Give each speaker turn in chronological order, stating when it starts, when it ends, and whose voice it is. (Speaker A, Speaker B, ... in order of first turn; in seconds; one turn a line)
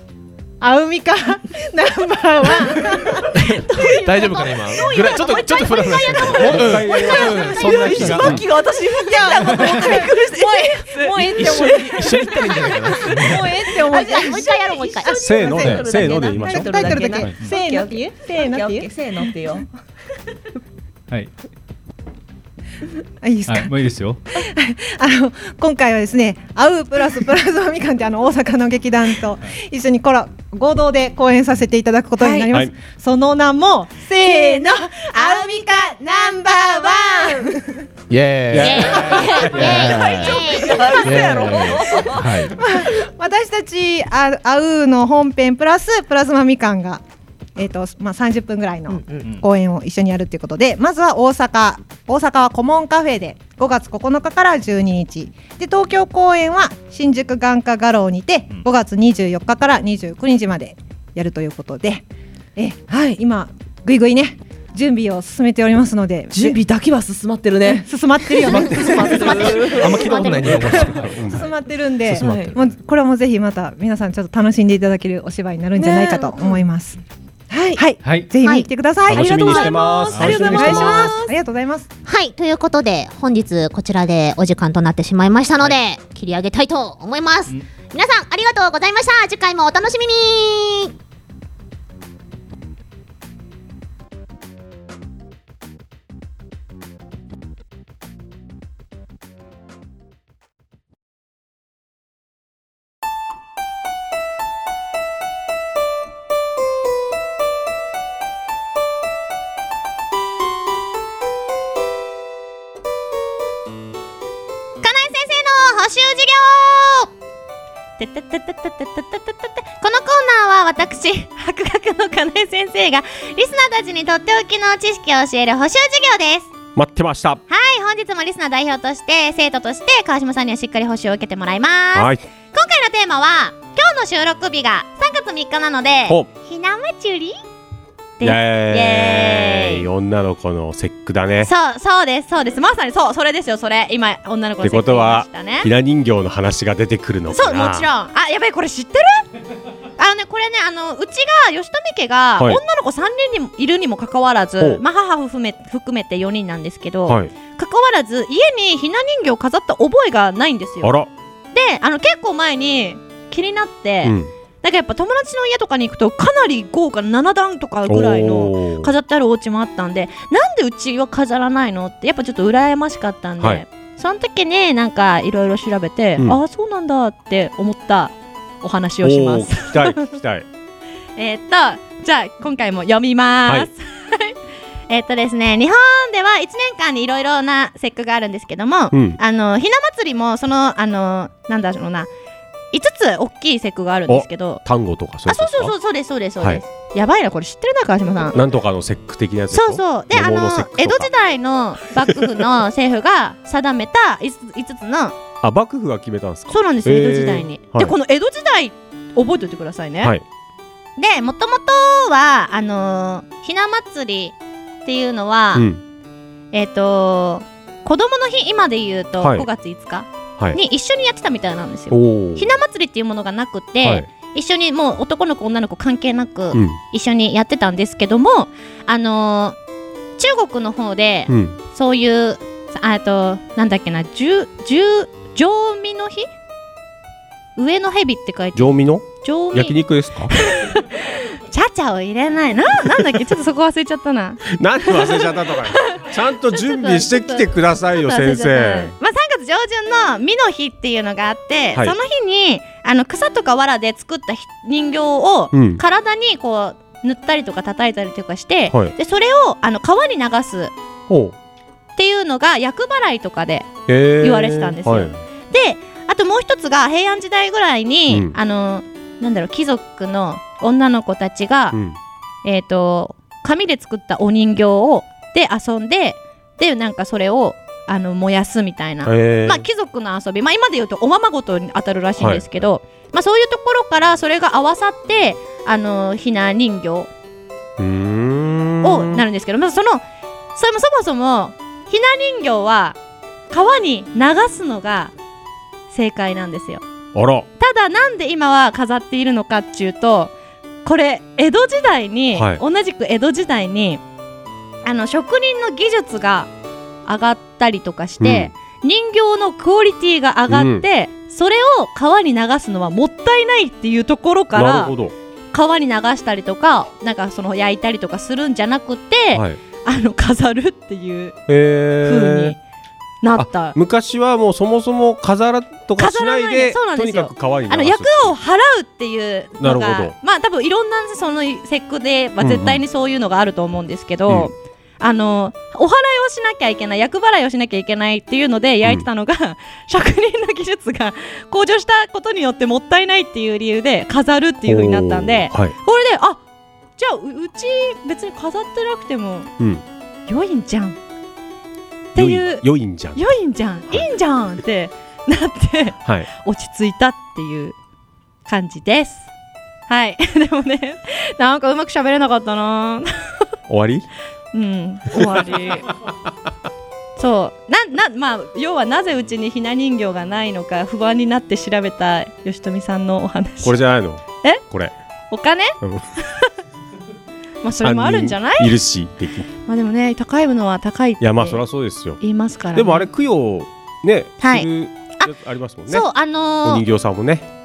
Speaker A: 0.6-3.5
Speaker B: 3.3-8.4
Speaker C: 3.6-19.6
Speaker D: 4.8-6.4
Speaker E: 6.4-8.3
Speaker A: 9.1-12.6
Speaker B: 11.3-13.5
Speaker A: 13.1-18.9
Speaker F: 13.9-15.1
Speaker E: 15.1-17.3
Speaker A: 23.2-23.7
Speaker G: 23.5-24.2
Speaker A: 24.4-37.7
Speaker B: 38.1-40.4
Speaker E: 38.5-39.0
Speaker F: 38.5-40.9
Speaker C: 39.3-42.5
Speaker B: 41.0-42.5
Speaker A: 42.5-47.0
Speaker A: 47.5-62.0
Speaker B: 48.9-49.3
Speaker G: 49.2-49.4
Speaker A: 62.5-66.6
Speaker C: 66.3-71.0
Speaker A: 67.8-81.9
Speaker B: 68.4-71.4
Speaker E: 71.0-71.5
Speaker B: 72.0-72.6
Speaker C: 72.1-72.5
Speaker C: 75.8-76.6
Speaker G: 78.0-78.3
Speaker F: 78.4-78.7
Speaker E: 79.1-81.2
Speaker D: 79.1-81.3
Speaker G: 80.1-80.8
Speaker F: 82.0-90.9
Speaker D: 114.8-117.1
Speaker D: 118.0-126.5
Speaker E: 126.7-127.4
Speaker D: 127.5-137.4
Speaker E: 131.9-132.2
Speaker D: 138.2-139.8
Speaker E: 138.2-141.5
Speaker D: 141.4-145.7
Speaker E: 144.6-147.9
Speaker D: 147.3-149.2
Speaker D: 150.0-160.9
Speaker E: 157.1-157.3
Speaker E: 160.8-161.1
Speaker D: 161.5-180.1
Speaker E: 164.0-164.3
Speaker E: 167.9-168.9
Speaker E: 179.0-180.4
Speaker D: 181.2-184.4
Speaker D: 184.9-192.1
Speaker E: 188.9-189.2
Speaker D: 192.7-194.6
Speaker E: 194.1-195.7
Speaker D: 195.2-198.4
Speaker E: 198.3-201.1
Speaker D: 199.5-205.2
Speaker E: 205.4-207.9
Speaker D: 206.5-210.1
Speaker D: 211.0-215.7
Speaker E: 215.5-215.8
Speaker D: 216.5-229.6
Speaker E: 219.2-219.5
Speaker E: 221.9-222.5
Speaker E: 223.8-224.1
Speaker E: 226.5-226.8
Speaker D: 230.2-236.3
Speaker E: 231.3-231.6
Speaker D: 237.6-239.7
Speaker E: 238.5-240.3
Speaker D: 240.3-260.7
Speaker E: 244.5-248.9
Speaker E: 255.5-255.8
Speaker E: 261.1-261.3
Speaker D: 261.9-271.8
Speaker E: 263.9-265.1
Speaker E: 268.1-268.3
Speaker E: 271.7-272.0
Speaker D: 272.4-287.1
Speaker E: 279.0-279.6
Speaker E: 282.2-282.4
Speaker E: 287.8-289.2
Speaker D: 288.8-290.0
Speaker D: 290.5-293.0
Speaker D: 293.5-295.1
Speaker D: 295.9-296.8
Speaker E: 297.1-297.5
Speaker D: 297.6-300.3
Speaker D: 300.8-304.0
Speaker E: 302.3-302.6
Speaker D: 304.8-306.5
Speaker D: 307.1-314.9
Speaker E: 308.2-308.5
Speaker E: 310.5-310.9
Speaker E: 314.5-315.1
Speaker D: 315.5-321.4
Speaker E: 319.3-319.6
Speaker E: 321.5-322.5
Speaker D: 322.0-322.6
Speaker D: 323.2-323.8
Speaker E: 323.4-328.4
Speaker D: 326.0-346.4
Speaker E: 329.6-330.1
Speaker E: 332.4-332.8
Speaker E: 334.3-334.5
Speaker E: 344.6-345.7
Speaker D: 347.0-349.5
Speaker E: 349.6-349.8
Speaker D: 350.3-351.0
Speaker D: 352.1-357.7
Speaker E: 352.1-353.3
Speaker D: 358.4-359.3
Speaker D: 359.9-363.1
Speaker E: 363.7-364.1
Speaker D: 364.5-365.9
Speaker D: 367.2-373.8
Speaker E: 373.6-374.9
Speaker D: 375.3-376.5
Speaker E: 375.8-376.1
Speaker D: 377.6-378.7
Speaker E: 377.8-379.5
Speaker D: 379.6-381.6
Speaker E: 381.2-382.2
Speaker D: 382.2-383.1
Speaker E: 382.7-386.1
Speaker D: 384.4-385.3
Speaker D: 385.9-386.8
Speaker E: 386.6-387.5